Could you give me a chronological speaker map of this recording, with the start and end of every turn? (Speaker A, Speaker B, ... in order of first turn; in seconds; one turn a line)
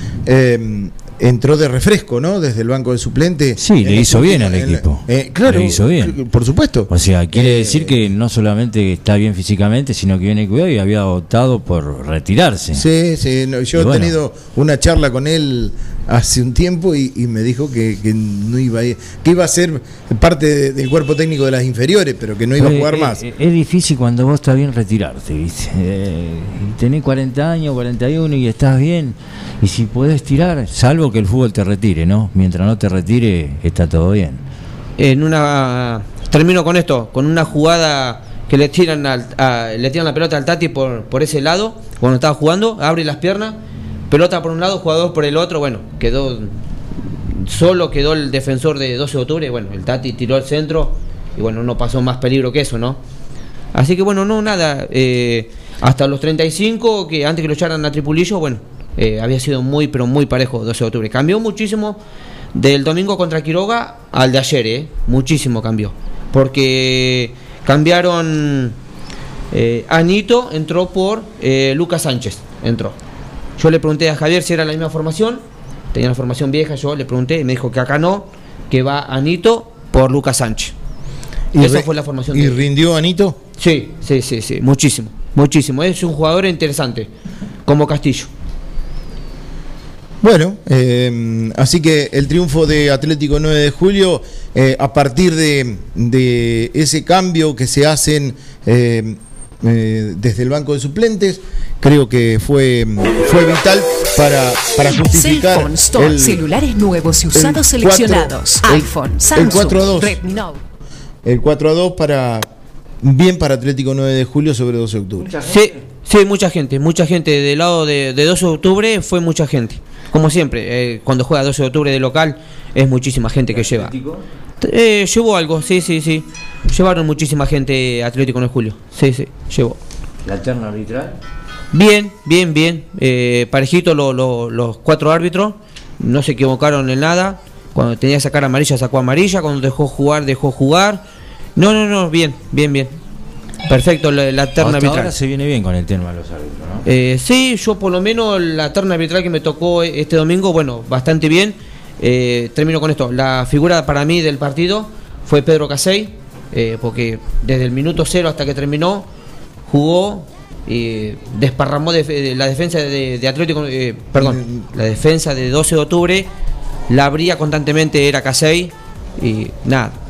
Speaker A: 0.2-7.9
Speaker B: 3.6-6.2
Speaker B: 6.9-12.8
Speaker A: 12.7-23.2
Speaker B: 13.8-14.1
Speaker B: 22.6-34.4
Speaker C: 35.0-43.6
Speaker C: 44.1-46.5
Speaker C: 47.3-53.0
Speaker C: 53.7-62.0
Speaker C: 62.5-68.8
Speaker C: 69.5-73.0
Speaker C: 73.6-75.4
Speaker C: 75.9-80.7
Speaker A: 81.5-83.4
Speaker C: 81.5-82.6
Speaker C: 83.6-87.1
Speaker C: 87.7-88.3
Speaker A: 90.2-106.4
Speaker D: 104.9-110.6
Speaker A: 107.3-110.2
Speaker A: 111.2-112.5
Speaker A: 113.0-115.3
Speaker B: 115.3-115.6
Speaker C: 115.5-123.9
Speaker B: 123.5-124.2
Speaker C: 124.6-129.8
Speaker B: 130.2-131.2
Speaker C: 131.7-141.0
Speaker C: 141.6-142.9
Speaker C: 143.7-145.1
Speaker B: 144.6-146.8
Speaker C: 146.8-159.1
Speaker C: 159.7-166.3
Speaker C: 166.9-169.9